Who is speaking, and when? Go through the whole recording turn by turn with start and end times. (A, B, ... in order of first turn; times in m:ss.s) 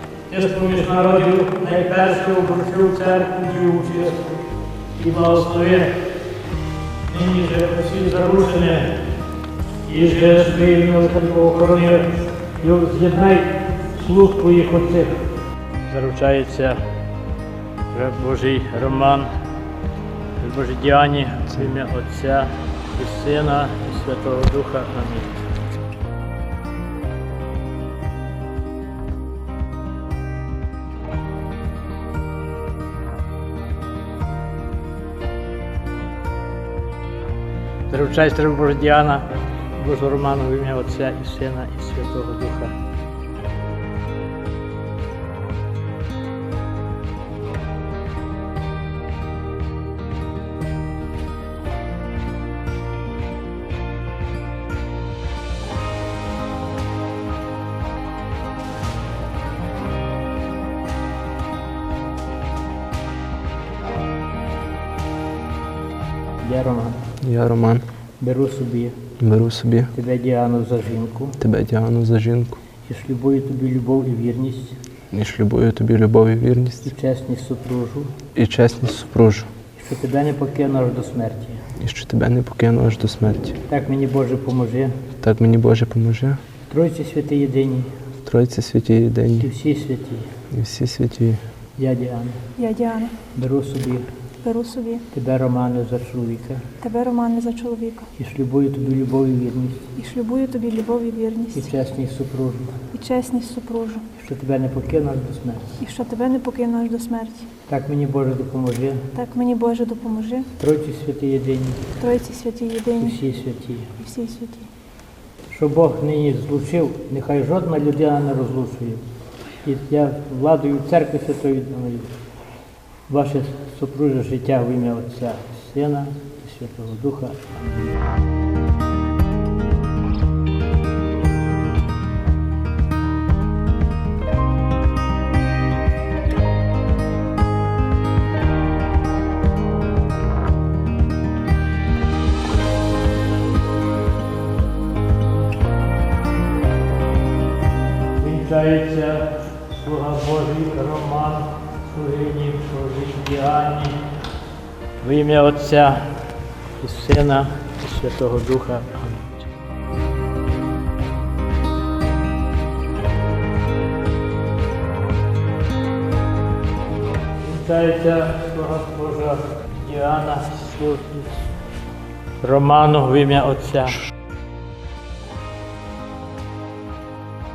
0:00.3-0:04.4 A
0:05.0-0:06.0 A
0:07.1-0:09.0 A
0:09.8-0:15.2 A
0:15.9-0:16.8 A
0:17.9-0:19.3 A
0:20.4-0:25.4 A
0:37.9-0:42.8 A
1:06.4-1:07.0 A
1:07.2-1:07.9 B
1:08.2-1:09.0 A
1:09.2-1:09.9 B
1:09.9-1:11.4 A
1:11.4-1:12.6 B
1:12.9-1:14.8 A
1:15.1-1:16.9 B
1:16.8-1:18.2 A
1:18.4-1:19.5 B
1:19.8-1:21.6 A
1:21.8-1:23.6 B
1:23.7-1:25.0 A
1:25.2-1:26.4 B
1:26.7-1:28.0 A
1:28.2-1:29.5 B
1:29.4-1:30.3 A
1:30.5-1:31.4 B
1:31.8-1:32.5 A
1:32.6-1:33.2 C
1:33.3-1:34.1 A
1:34.4-1:35.0 C
1:35.1-1:36.7 A
1:36.8-1:38.1 C
1:38.2-1:39.9 A
1:40.0-1:41.6 C
1:41.5-1:42.8 A
1:42.9-1:44.0 C
1:44.1-1:45.8 A
1:45.8-1:47.5 C
1:47.7-1:49.1 A
1:49.2-1:50.5 C
1:50.6-1:51.9 A
1:52.0-1:53.1 C
1:53.0-1:53.9 A
1:54.0-1:54.7 C
1:55.5-1:59.0 A
1:59.6-2:02.1 A
2:03.1-2:07.9 A
2:28.2-2:34.0 A
2:35.0-2:36.2 A
2:36.8-2:39.5 A
2:47.4-2:51.4 A
2:52.4-2:54.0 A